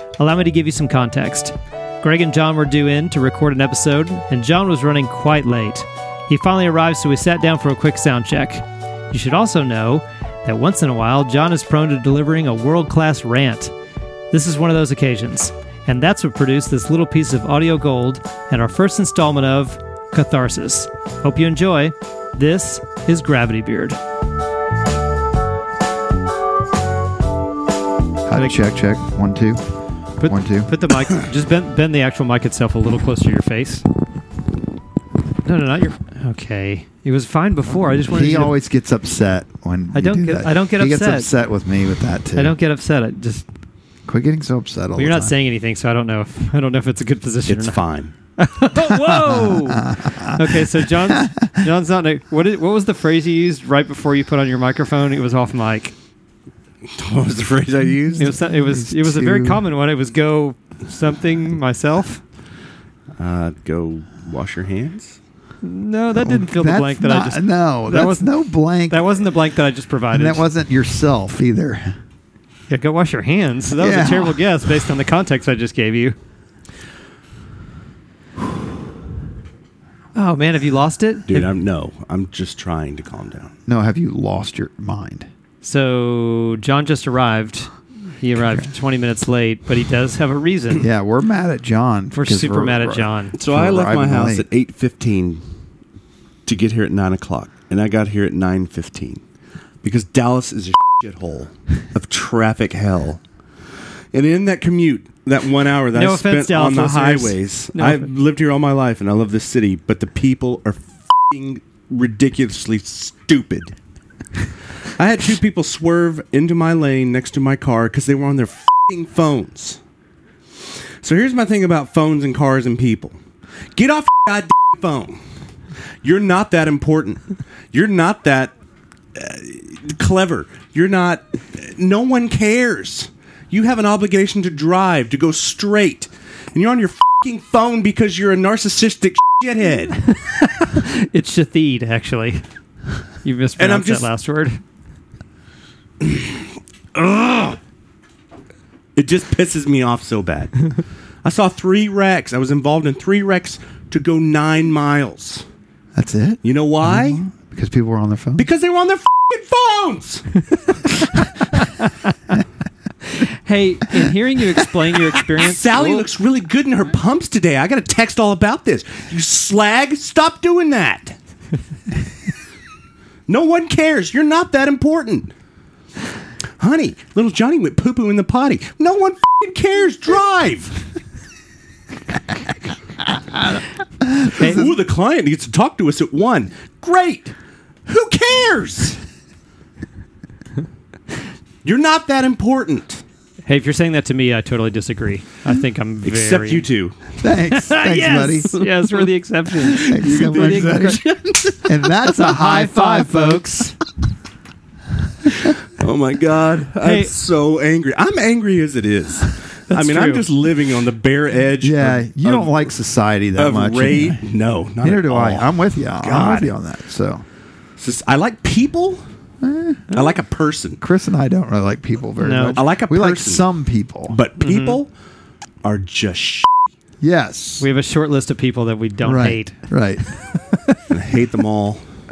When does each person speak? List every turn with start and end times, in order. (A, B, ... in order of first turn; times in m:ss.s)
0:00.2-0:13.7 A
0:14.3-0:24.0 A
0:28.3-0:29.6 B
0:28.3-0:28.6 A
0:30.2-0:33.8 A
0:30.2-0:30.7 B
0:35.4-0:38.6 A
0:38.0-0:42.6 B
0:39.9-0:41.3 A
0:42.4-0:43.5 A
0:44.1-0:45.4 B
0:45.0-0:47.8 A
0:47.5-0:48.1 C
0:48.4-0:56.0 A
0:49.1-0:50.4 B
0:51.0-0:51.5 B
0:56.9-0:58.3 C
0:58.1-0:59.6 B
0:58.2-1:02.2 A
1:03.2-1:05.2 C
1:05.6-1:08.3 A
1:06.2-1:09.2 B
1:08.9-1:10.4 A
1:10.1-1:11.9 B
1:12.7-1:16.2 A
1:13.8-1:14.4 B
1:20.2-1:21.5 A
1:21.3-1:23.5 C
1:23.7-1:25.3 B
1:25.6-1:30.9 A
1:30.8-1:34.5 B
1:32.1-1:33.4 A
1:33.4-1:35.4 C
1:36.5-1:39.2 C
1:39.8-1:43.2 C
1:44.1-1:53.8 C
1:45.9-1:48.1 A
1:55.0-1:59.8 C
2:01.0-2:03.2 C
2:03.8-2:05.2 C
2:06.0-2:08.5 C
2:09.2-2:20.0 C
2:20.1-2:22.4 A
2:23.2-2:24.6 A
2:23.6-2:24.1 C
2:26.0-2:27.6 C
2:29.0-2:35.4 C
2:36.0-2:38.5 B
2:36.4-2:37.2 C
2:38.4-2:40.3 C
2:43.1-2:46.1 A
2:45.4-2:51.2 C
2:53.3-2:55.3 C
2:56.6-3:00.8 C
3:04.0-3:04.7 B
3:04.4-3:04.6 A
3:04.4-3:07.4 C
3:07.9-3:09.0 C
3:11.6-3:13.0 C
3:13.5-3:16.7 A
3:16.0-3:17.1 C
3:17.2-3:18.6 B
3:17.5-3:21.0 A
3:19.6-3:21.0 B
3:19.7-3:21.7 C
3:21.6-3:23.7 B
3:21.9-3:23.8 A
3:25.3-3:32.7 C
3:26.8-3:27.1 A
3:29.7-3:30.3 A
3:31.6-3:34.2 B
3:33.4-3:36.5 C
3:34.8-3:37.2 B
3:37.8-3:39.0 C
3:39.4-3:40.0 B
3:39.9-3:40.8 C
3:40.8-3:44.2 B
3:42.2-3:42.6 A
3:42.5-3:43.5 C
3:44.1-3:44.9 C
3:44.4-3:44.8 A
3:45.6-3:46.6 C
3:47.0-3:47.7 B
3:47.6-3:49.7 A
3:49.0-3:50.1 B
3:50.9-3:51.8 C